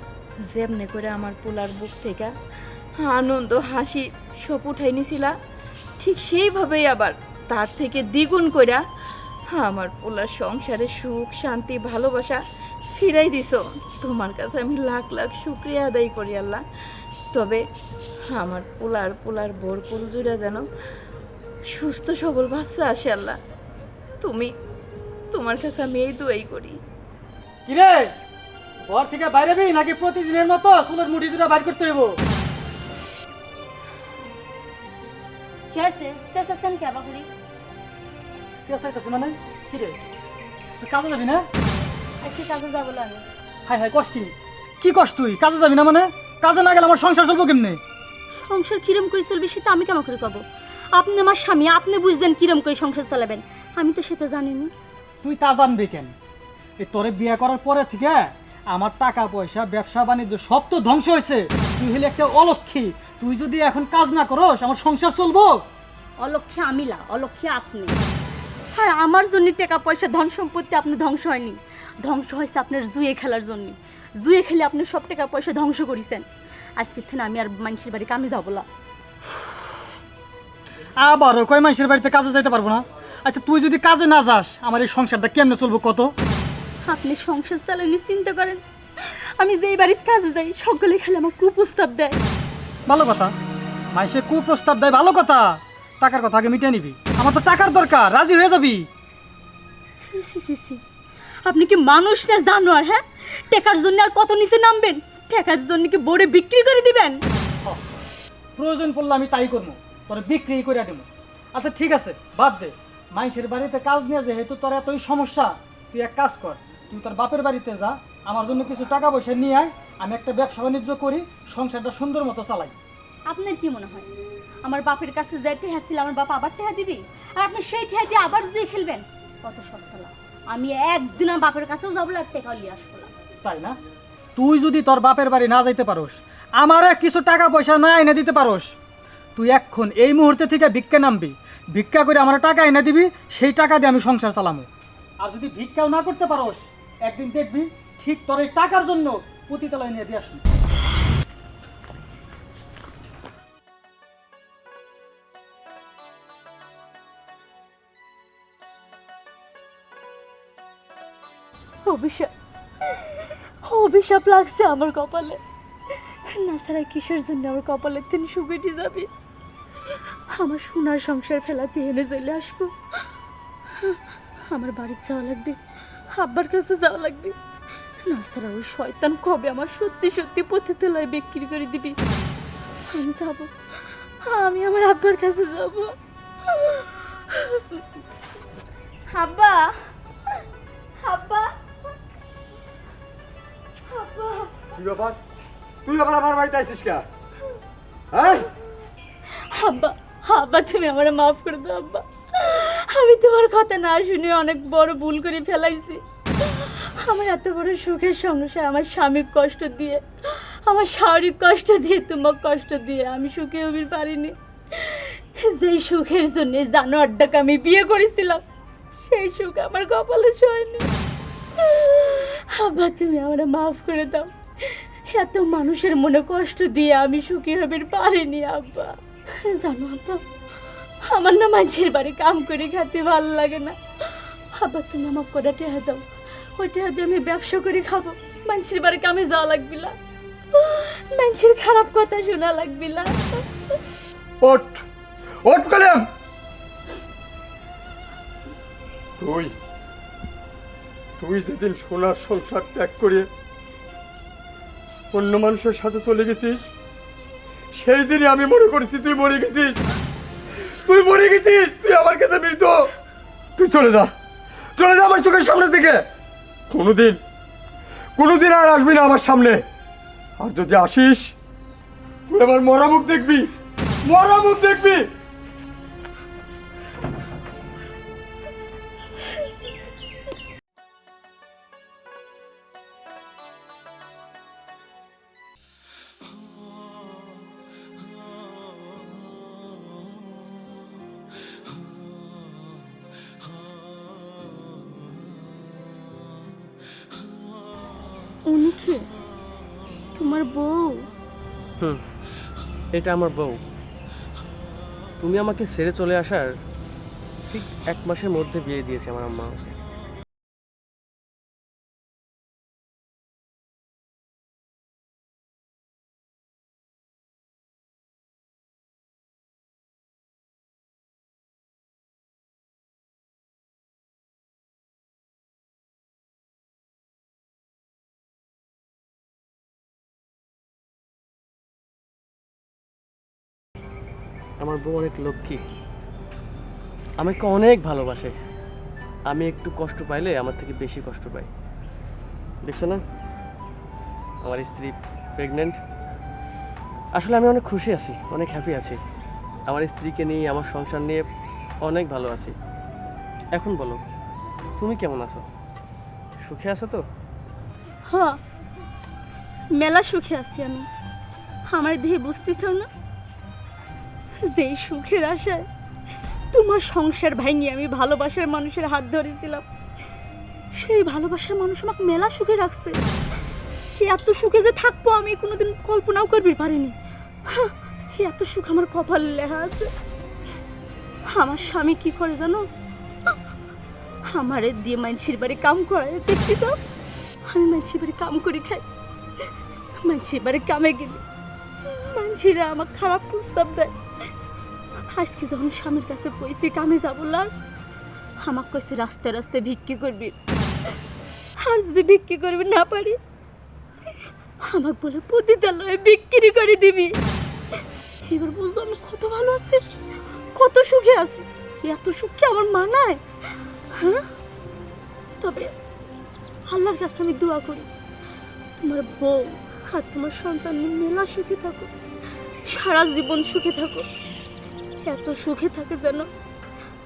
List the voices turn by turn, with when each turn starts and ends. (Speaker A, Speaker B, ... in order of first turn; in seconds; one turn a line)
Speaker A: 0.5-2.3
Speaker A: 3.0-5.3
Speaker A: 6.0-8.8
Speaker A: 9.5-12.4
Speaker A: 12.9-16.6
Speaker A: 17.3-17.6
Speaker A: 18.3-20.7
Speaker A: 21.7-23.4
Speaker A: 24.2-24.5
Speaker A: 25.3-26.8
Speaker B: 27.7-28.1
Speaker B: 28.9-32.1
Speaker C: 35.7-37.3
Speaker B: 38.6-40.0
Speaker B: 40.8-41.5
Speaker C: 42.2-43.2
Speaker B: 43.7-47.8
Speaker C: 48.3-50.4
Speaker C: 50.9-54.7
Speaker B: 55.2-56.1
Speaker B: 56.8-65.6
Speaker C: 66.2-68.0
Speaker C: 68.7-76.2
Speaker C: 76.8-78.7
Speaker B: 81.0-86.1
Speaker C: 86.9-88.6
Speaker C: 89.4-92.2
Speaker B: 92.9-93.3
Speaker B: 93.9-95.5
Speaker B: 96.0-98.9
Speaker C: 99.9-100.8
Speaker C: 101.5-107.2
Speaker B: 107.6-107.9
Speaker B: 108.6-122.7
Speaker C: 123.3-124.1
Speaker C: 124.6-133.1
Speaker B: 133.4-133.8
Speaker B: 134.4-138.7
Speaker B: 139.4-144.7
Speaker B: 145.2-150.4
Speaker C: 161.9-162.3
Speaker C: 163.7-165.4
Speaker C: 166.3-169.1
Speaker C: 170.4-172.7
Speaker C: 174.5-175.6
Speaker C: 176.2-177.3
Speaker C: 178.1-182.0
Speaker C: 182.9-183.5
Speaker C: 184.2-185.9
Speaker C: 186.5-187.6
Speaker C: 189.1-189.7
Speaker C: 191.0-191.6
Speaker C: 193.9-194.5
Speaker D: 194.8-195.2
Speaker D: 195.8-197.0
Speaker D: 198.1-198.4
Speaker C: 199.5-210.0
Speaker C: 210.7-218.4
Speaker C: 219.1-220.9
Speaker C: 221.6-224.3
Speaker C: 225.1-228.9
Speaker C: 229.5-230.2
Speaker C: 231.1-233.8
Speaker C: 234.6-236.0
Speaker C: 236.6-239.9
Speaker C: 240.6-243.4
Speaker D: 244.4-244.8
Speaker D: 245.4-246.0
Speaker D: 249.2-249.5
Speaker D: 251.2-253.3
Speaker D: 255.1-256.6
Speaker D: 257.8-259.7
Speaker D: 260.9-262.8
Speaker D: 263.6-264.1
Speaker D: 264.8-266.0
Speaker D: 266.7-267.2
Speaker D: 268.2-269.6
Speaker D: 270.4-271.3
Speaker D: 272.3-273.5
Speaker D: 274.1-275.0
Speaker C: 298.5-299.0
Speaker C: 300.2-301.0
Speaker E: 303.0-303.6
Speaker E: 305.2-306.5
Speaker E: 307.5-309.8
Speaker E: 334.6-335.6
Speaker E: 337.2-338.4
Speaker E: 339.3-341.5
Speaker E: 342.6-343.0
Speaker E: 344.4-345.8
Speaker E: 347.2-349.0
Speaker E: 349.7-351.2
Speaker E: 351.9-352.5
Speaker E: 353.6-354.0
Speaker E: 354.8-355.4
Speaker E: 356.4-357.0
Speaker C: 358.1-358.4
Speaker C: 359.8-360.9
Speaker C: 361.7-362.9
Speaker C: 364.5-365.6
Speaker C: 366.5-369.6
Speaker C: 370.8-373.0
Speaker C: 374.0-376.9
Speaker C: 377.5-379.9
Speaker C: 381.3-382.7
Speaker C: 384.3-386.8
Speaker C: 387.5-388.9
Speaker C: 390.0-391.2
Speaker C: 391.9-393.9
Speaker C: 395.1-397.5
Speaker C: 398.4-400.4
Speaker C: 401.6-403.2
Speaker C: 404.7-407.1
Speaker C: 408.3-409.8
Speaker C: 410.6-413.2
Speaker C: 414.0-414.2
Speaker C: 415.4-415.7
Speaker C: 416.7-417.9
Speaker C: 418.8-421.9
Speaker C: 422.7-424.1
Speaker C: 425.1-426.3